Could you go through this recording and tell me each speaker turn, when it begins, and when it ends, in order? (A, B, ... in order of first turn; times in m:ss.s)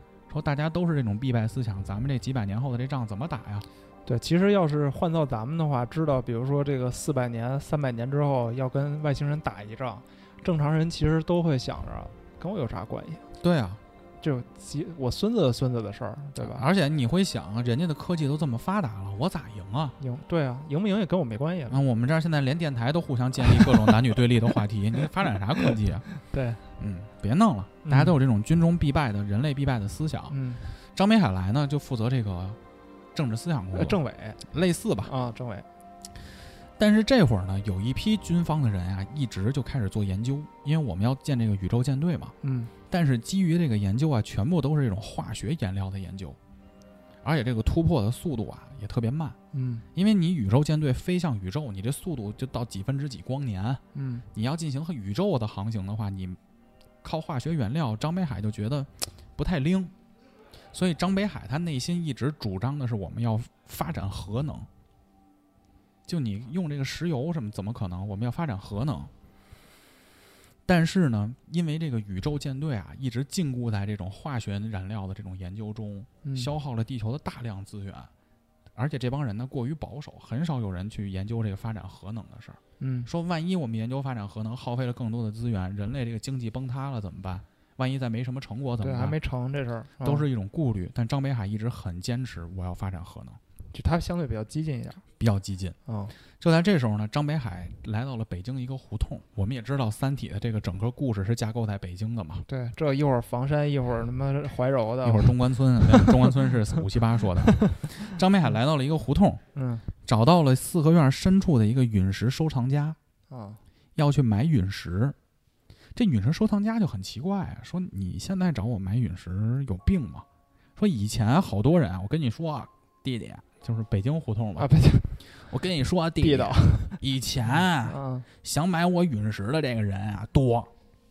0:00.3-0:03.6 A
0:04.0-0:13.2 B
0:13.4-0:13.8 A
0:14.2-0:16.7 B
0:16.4-0:20.0 A
0:20.0-0:21.8 B
0:21.7-0:26.0 A
0:23.4-0:23.9 B
0:25.6-0:26.6 B
0:26.8-0:32.6 A
0:27.8-0:28.2 B
0:30.3-0:30.7 B
0:33.1-0:34.0 A
0:33.7-0:34.4 B
0:34.5-0:35.1 A
0:35.0-0:35.7 B
0:36.8-0:42.3 A
0:42.4-0:42.7 B
0:42.9-0:46.4 A
0:47.2-0:49.4 A
0:49.5-0:49.8 B
0:49.9-0:53.8 A
0:53.9-0:54.2 B
0:54.3-0:56.4 A
0:57.0-0:59.9 A
1:00.7-1:04.7 A
1:06.1-1:09.1 A
1:10.6-1:18.1 A
1:16.2-1:16.5 B
1:18.8-1:29.2 A
1:22.8-1:23.1 B
1:28.8-1:30.3 B
1:30.0-1:33.4 A
1:33.7-1:35.0 B
1:35.2-1:35.8 A
1:35.8-1:36.1 B
1:36.4-1:42.4 A
1:42.5-1:46.4 B
1:45.0-1:49.4 A
1:47.5-1:47.8 B
1:49.5-1:49.9 B
1:50.0-1:53.0 A
1:53.3-1:53.6 B
1:54.0-1:55.2 A
1:56.0-2:00.2 A
2:00.8-2:04.7 A
2:04.6-2:05.2 B
2:05.4-2:10.7 A
2:06.2-2:07.0 B
2:07.5-2:08.3 B